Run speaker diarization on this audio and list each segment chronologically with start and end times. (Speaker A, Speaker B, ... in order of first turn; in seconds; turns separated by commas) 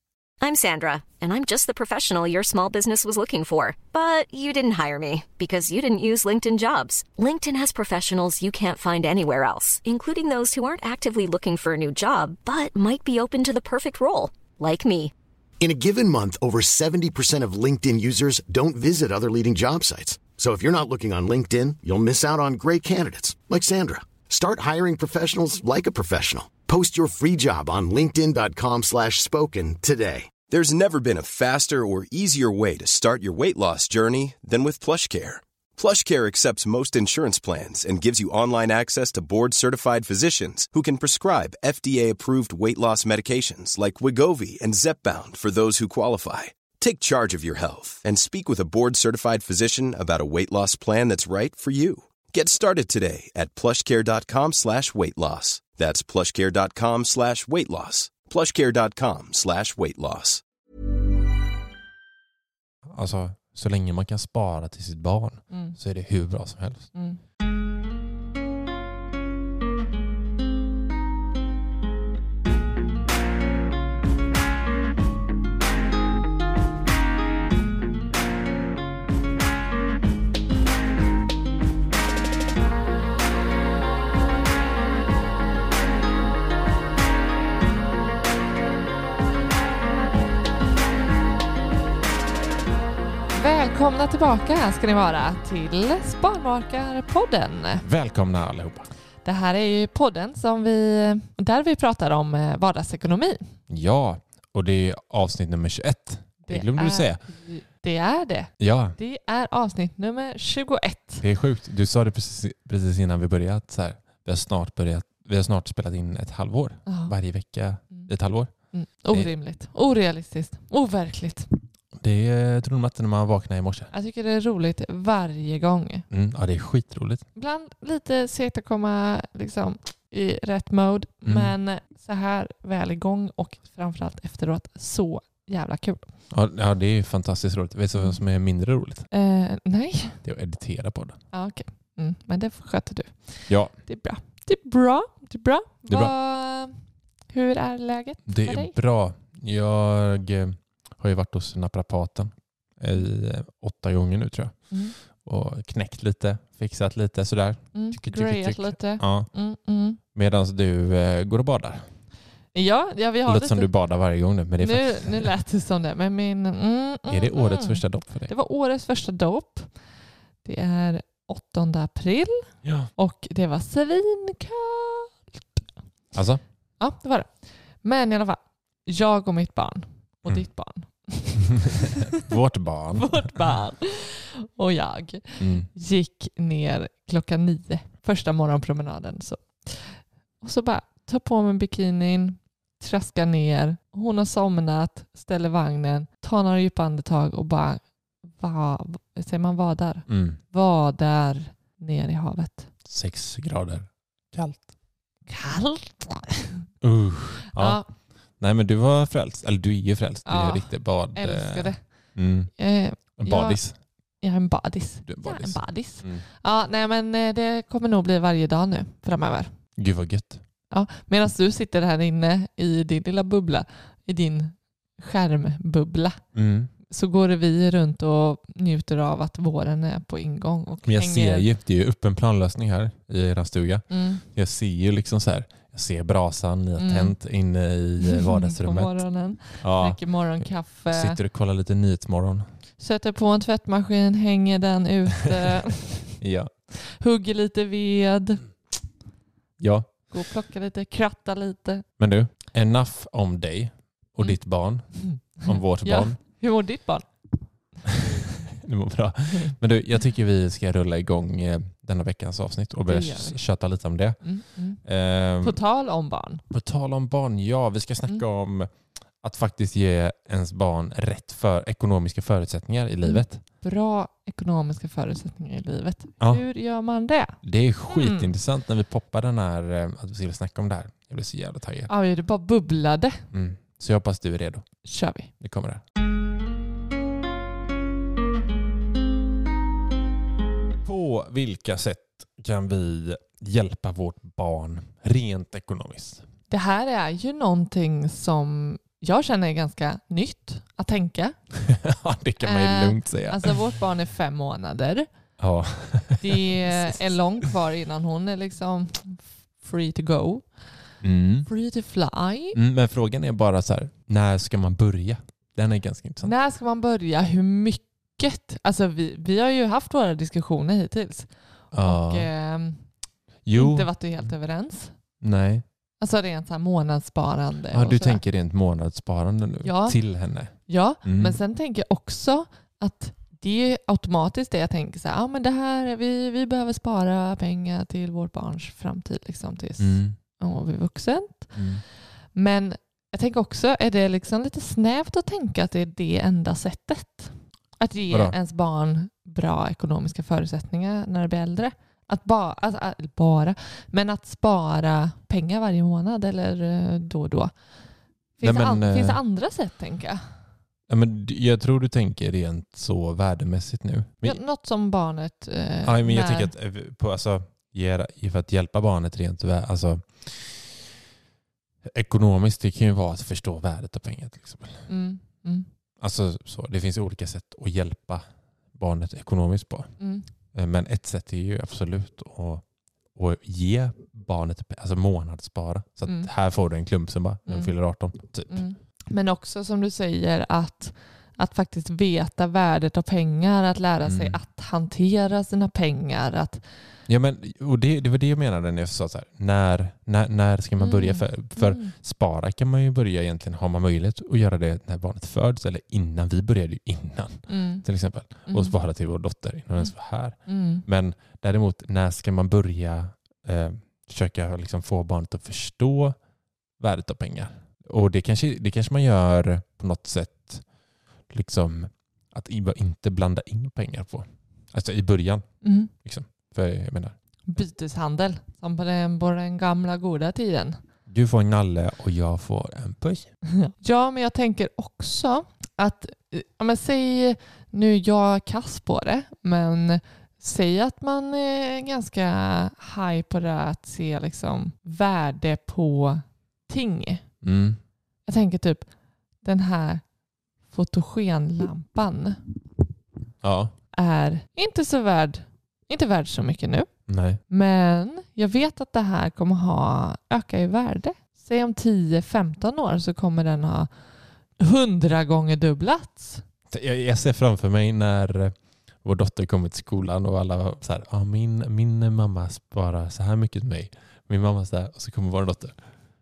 Speaker A: 0.4-15.1, Speaker B: 15.6-30.4, Speaker C: 30.5-60.4, Speaker D: 62.9-66.9, Speaker E: 65.5-65.8, Speaker E: 66.9-67.2, Speaker E: 93.3-97.8, Speaker D: 97.8-98.9, Speaker E: 99.2-103.5, Speaker D: 103.7-107.2, Speaker E: 106.5-111.2, Speaker D: 108.6-109.0, Speaker D: 111.2-118.5, Speaker E: 116.9-117.1, Speaker E: 118.7-121.5, Speaker D: 122.0-123.9, Speaker E: 123.9-126.0, Speaker D: 126.1-127.2, Speaker E: 127.4-136.1, Speaker D: 131.3-131.5, Speaker D: 136.3-139.1, Speaker E: 139.1-140.2, Speaker D: 140.2-141.2, Speaker E: 141.3-146.8, Speaker E: 147.3-148.8, Speaker D: 148.3-159.3, Speaker E: 157.7-160.0, Speaker D: 160.1-161.9, Speaker E: 162.5-163.7, Speaker D: 163.3-165.3, Speaker E: 164.6-169.7, Speaker D: 167.1-168.3, Speaker E: 170.4-172.5, Speaker D: 172.6-172.9, Speaker E: 173.0-175.2, Speaker D: 176.1-176.4, Speaker E: 176.8-177.3, Speaker E: 177.8-182.2, Speaker D: 181.7-183.5, Speaker E: 183.0-197.8, Speaker D: 185.4-185.7, Speaker E: 198.4-202.7, Speaker D: 200.1-200.4, Speaker D: 202.8-204.7, Speaker E: 205.3-206.6, Speaker D: 206.8-207.8, Speaker E: 207.6-207.9, Speaker D: 208.4-212.5, Speaker E: 210.3-211.8, Speaker E: 212.6-213.6, Speaker D: 213.2-213.8, Speaker E: 214.2-219.5, Speaker D: 215.1-216.2, Speaker D: 219.8-220.4, Speaker E: 220.7-226.2, Speaker D: 226.3-226.7, Speaker E: 226.9-231.5, Speaker D: 230.8-239.0, Speaker E: 233.9-234.2, Speaker E: 236.8-237.2, Speaker E: 238.0-241.2, Speaker D: 239.6-240.0, Speaker D: 240.9-242.5, Speaker E: 242.8-246.1, Speaker D: 246.2-246.5, Speaker E: 246.9-248.4, Speaker D: 249.6-249.9, Speaker E: 250.1-251.8, Speaker D: 252.0-256.2, Speaker E: 255.0-257.1, Speaker D: 257.9-264.2, Speaker E: 262.9-263.4, Speaker E: 264.2-264.8, Speaker D: 264.8-265.6, Speaker E: 265.4-266.4, Speaker D: 266.5-273.4, Speaker E: 273.0-277.4, Speaker D: 277.4-281.9, Speaker E: 277.9-278.3, Speaker E: 281.9-283.2, Speaker D: 283.3-284.7, Speaker E: 284.9-285.3, Speaker D: 285.4-285.8, Speaker D: 290.8-296.2, Speaker E: 296.5-301.4, Speaker D: 301.6-303.5, Speaker E: 302.4-305.1, Speaker D: 305.4-307.1, Speaker E: 306.2-310.5, Speaker D: 311.0-311.5, Speaker E: 311.5-312.6, Speaker D: 312.5-316.3, Speaker E: 316.2-322.8, Speaker D: 321.7-322.3, Speaker D: 323.4-324.3, Speaker E: 323.5-324.9, Speaker D: 325.2-325.6, Speaker E: 326.0-328.2, Speaker D: 327.7-331.4, Speaker E: 329.6-330.0, Speaker E: 330.7-341.6, Speaker D: 339.8-340.2, Speaker D: 341.6-341.8, Speaker E: 342.4-357.5, Speaker D: 348.1-348.4, Speaker E: 358.4-360.2, Speaker D: 358.4-359.2, Speaker D: 360.9-364.4, Speaker E: 364.2-366.5, Speaker D: 365.9-370.9, Speaker D: 371.9-374.9, Speaker E: 374.9-375.7, Speaker D: 376.0-378.2, Speaker D: 378.8-379.9, Speaker E: 380.0-380.3, Speaker D: 380.5-382.6, Speaker D: 383.1-388.6, Speaker E: 387.5-387.7, Speaker E: 388.5-396.6, Speaker D: 394.1-394.4, Speaker D: 397.1-416.2, Speaker E: 400.8-401.9, Speaker E: 407.5-407.9, Speaker E: 408.5-408.8, Speaker E: 410.5-410.8, Speaker D: 416.8-420.6, Speaker D: 421.3-427.1, Speaker E: 425.6-425.9, Speaker E: 427.5-430.8, Speaker D: 431.1-433.3, Speaker E: 433.6-447.2, Speaker D: 447.4-447.8, Speaker E: 448.3-448.9, Speaker E: 449.4-450.0, Speaker E: 450.7-452.4, Speaker D: 453.4-453.7, Speaker E: 453.9-456.9, Speaker D: 457.1-457.4, Speaker E: 457.5-463.9, Speaker E: 464.6-466.4, Speaker D: 466.7-475.8